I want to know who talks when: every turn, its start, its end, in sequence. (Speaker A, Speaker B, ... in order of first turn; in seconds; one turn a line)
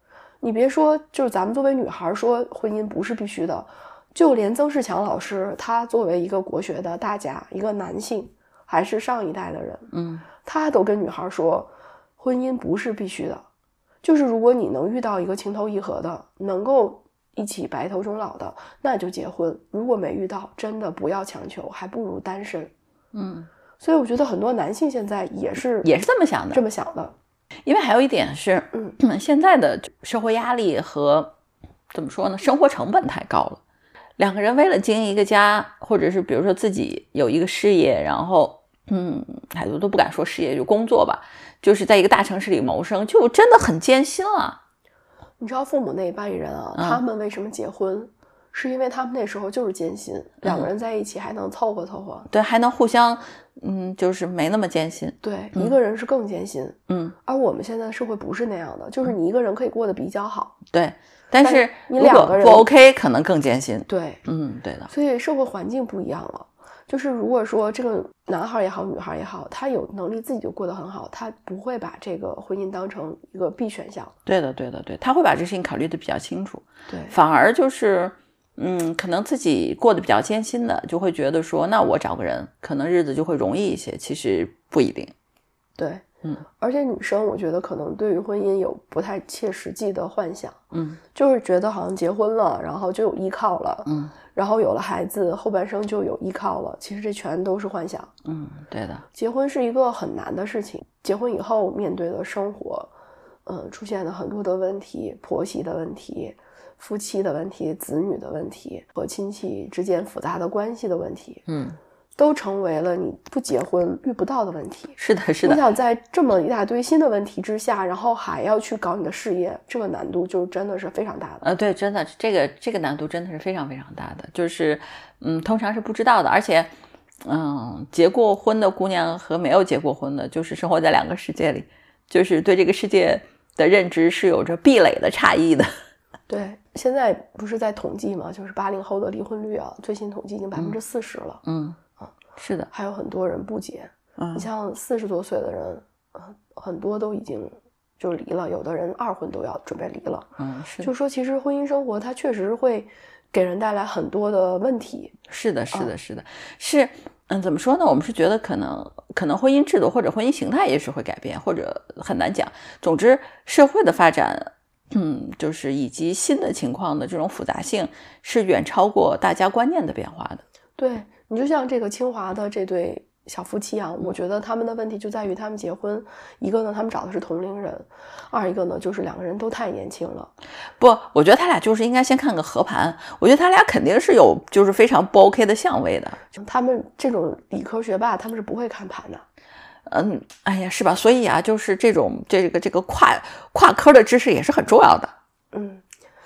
Speaker A: 0.4-9.9
Speaker B: 9.9-10.2
Speaker A: 10.4-13.4
Speaker A: 14.0-22.7
Speaker B: 23.1-23.5
Speaker A: 23.8-25.9
Speaker B: 25.8-26.6
Speaker A: 26.5-27.1
Speaker B: 27.6-31.3
Speaker B: 31.9-33.6
Speaker B: 34.2-44.6
Speaker A: 45.4-52.3
Speaker B: 50.4-50.7
Speaker B: 52.3-55.7
Speaker A: 55.2-60.6
Speaker B: 56.9-57.1
Speaker B: 60.7-64.9
Speaker A: 61.4-62.7
Speaker A: 63.9-64.2
Speaker A: 64.9-74.1
Speaker B: 74.2-85.1
Speaker A: 76.9-77.1
Speaker A: 85.8-86.0
Speaker A: 86.6-90.6
Speaker B: 90.7-91.0
Speaker A: 91.1-98.1
Speaker B: 93.8-94.1
Speaker B: 98.2-99.0
Speaker A: 99.1-102.9
Speaker A: 103.5-111.4
Speaker B: 111.5-111.8
Speaker A: 112.2-121.5
Speaker B: 115.0-115.6
Speaker B: 121.4-126.7
Speaker B: 127.2-135.7
Speaker A: 136.3-141.4
Speaker B: 141.4-141.8
Speaker B: 142.4-142.7
Speaker A: 142.7-150.3
Speaker B: 144.2-144.4
Speaker B: 150.4-150.9
Speaker A: 150.8-155.1
Speaker B: 155.3-170.4
Speaker A: 170.8-180.3
Speaker B: 180.8-186.2
Speaker A: 186.3-189.2
Speaker B: 189.8-195.1
Speaker A: 195.5-195.8